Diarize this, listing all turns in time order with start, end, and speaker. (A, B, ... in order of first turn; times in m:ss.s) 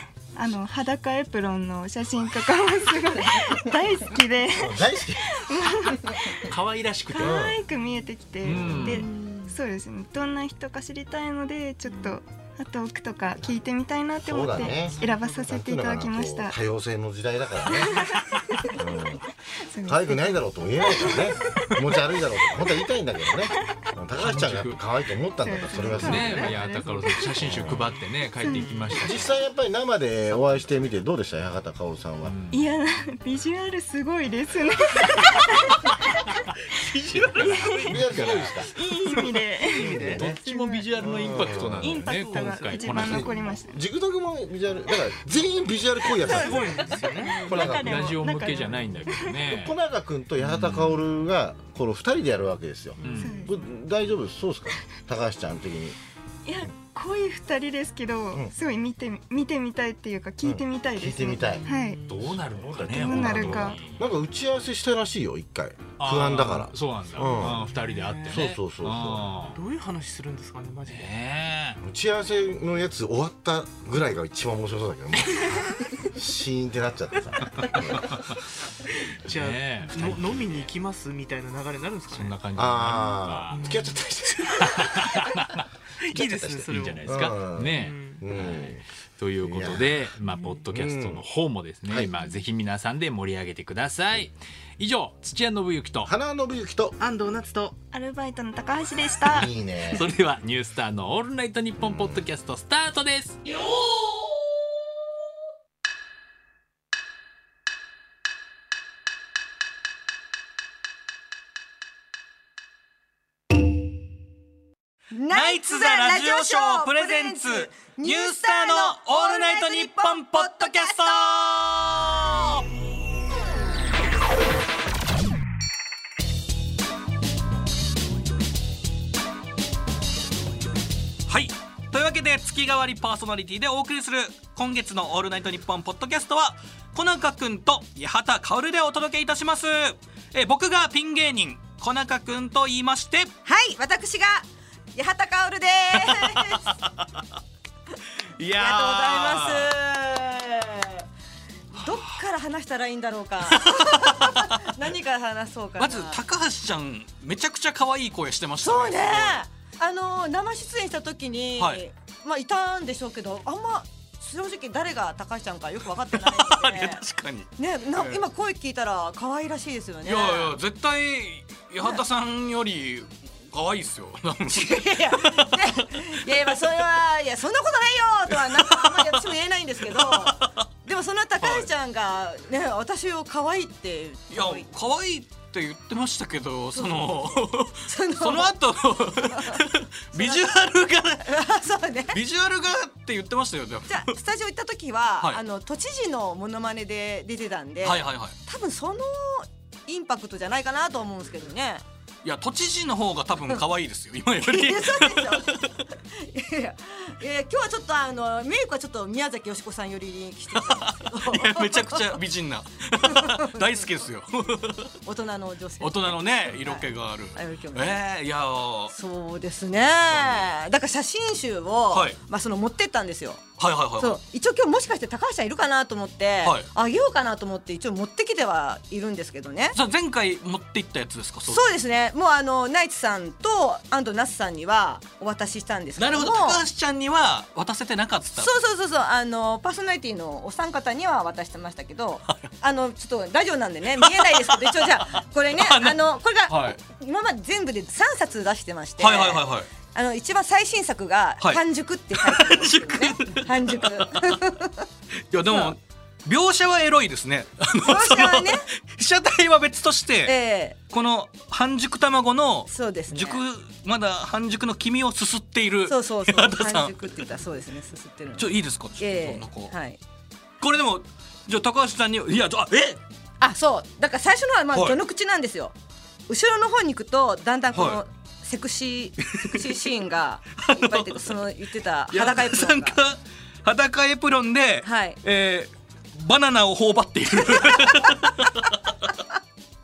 0:00.4-0:06.5 A
0:04.6-0:05.4 B
0:06.5-0:07.5 C
0:07.1-0:16.6 A
0:07.1-0:07.6 B
0:08.4-0:09.1 C
0:08.5-0:09.0 B
0:09.0-0:09.5 D
0:14.2-0:18.0 B
0:14.5-0:15.3 D
0:17.8-0:18.8 A
0:18.7-0:19.2 B
0:19.7-0:22.0 A
0:19.8-0:26.6 B
0:24.2-0:24.8 C
0:25.4-0:27.5 A
0:25.8-0:29.4 C
0:26.1-0:26.5 D
0:27.4-0:28.0 B
0:28.4-0:29.0 A
0:28.9-0:32.3 B
0:32.2-0:32.6 C
0:32.5-0:36.0 A
0:36.9-0:38.6 C
0:37.3-0:38.6 D
0:37.4-0:38.0 A
0:37.8-0:38.7 B
0:38.7-0:43.8 A
0:39.1-0:40.4 D
0:39.8-0:40.3 B
0:40.2-0:43.3 C
0:41.0-0:42.0 B
0:41.2-0:43.5 D
0:42.9-0:48.2 B
0:46.0-0:47.6 D
0:46.2-0:49.4 A
0:47.5-0:49.8 C
0:49.4-0:56.0 B
0:50.4-0:51.0 C
0:53.0-0:53.4 D
0:53.0-0:53.3 C
0:53.2-0:53.5 A
0:56.4-1:02.0 A
1:00.4-1:01.7 B
1:01.3-1:02.8 D
1:02.1-1:04.0 C
1:02.3-1:07.6 B
1:02.8-1:03.8 A
1:06.0-1:09.6 C
1:07.2-1:08.4 D
1:08.3-1:09.2 B
1:09.5-1:11.3 D
1:10.8-1:11.8 C
1:11.8-1:18.0 B
1:17.6-1:18.3 C
1:19.2-1:22.9 D
1:19.2-1:20.7 C
1:22.1-1:23.6 C
1:22.5-1:24.8 B
1:23.5-1:25.3 D
1:24.6-1:36.1 C
1:26.0-1:28.3 D
1:27.0-1:28.8 B
1:29.4-1:30.0 B
1:30.2-1:30.7 D
1:30.7-1:31.2 B
1:36.0-1:37.0 B
1:37.0-1:37.8 D
1:37.9-1:40.1 A
1:39.3-1:40.0 B
1:39.9-1:43.4 C
1:55.1-2:01.5 E
1:55.3-2:02.6 F
2:11.3-2:23.3 F
2:23.4-2:26.7 E
2:25.9-2:27.2 F
2:28.4-2:29.7 F
2:28.6-2:31.0 E
2:31.7-2:36.2 E
2:33.5-2:34.7 F
2:35.8-2:39.4 F
2:38.6-2:47.0 E
2:41.6-2:41.8 F
2:46.1-2:48.2 F
2:47.6-2:50.5 E
2:50.0-2:56.6 F
2:54.5-3:04.7 E
2:58.3-2:59.2 F
2:59.8-3:00.6 F
3:01.4-3:01.7 F
3:04.3-3:11.4 F
3:06.7-3:08.5 E
3:09.1-3:10.6 E
3:11.2-3:12.2 E
3:12.1-3:14.1 F
3:13.9-3:21.8 E
3:17.8-3:18.3 F
3:22.2-3:25.7 F
3:24.4-3:32.2 E
3:30.5-3:34.9 F
3:33.0-3:33.6 E
3:35.0-3:38.0 E
3:35.8-3:38.9 F
3:38.9-3:43.4 E
3:40.1-3:40.5 F
3:41.9-3:42.2 F
3:43.6-3:44.2 F
3:44.0-3:49.8 E
3:49.7-3:51.7 F
3:51.5-3:56.6 E
3:56.0-3:58.5 F
3:58.4-4:14.9 E
4:04.0-4:06.8 F
4:09.0-4:09.7 F
4:12.1-4:14.4 F
4:15.3-4:20.3 F
4:15.4-4:15.7 E
4:17.8-4:18.7 E
4:20.2-4:20.8 E
4:20.9-4:27.2 F
4:22.7-4:23.4 E
4:25.9-4:30.0 E
4:28.4-4:29.7 F
4:30.6-4:33.0 F
4:33.4-4:35.7 E
4:36.3-4:43.0 E
4:37.7-4:38.0 F
4:39.3-4:39.8 F
4:40.6-4:41.5 F
4:42.1-4:49.1 F
4:44.8-4:45.2 E
4:47.5-4:48.3 E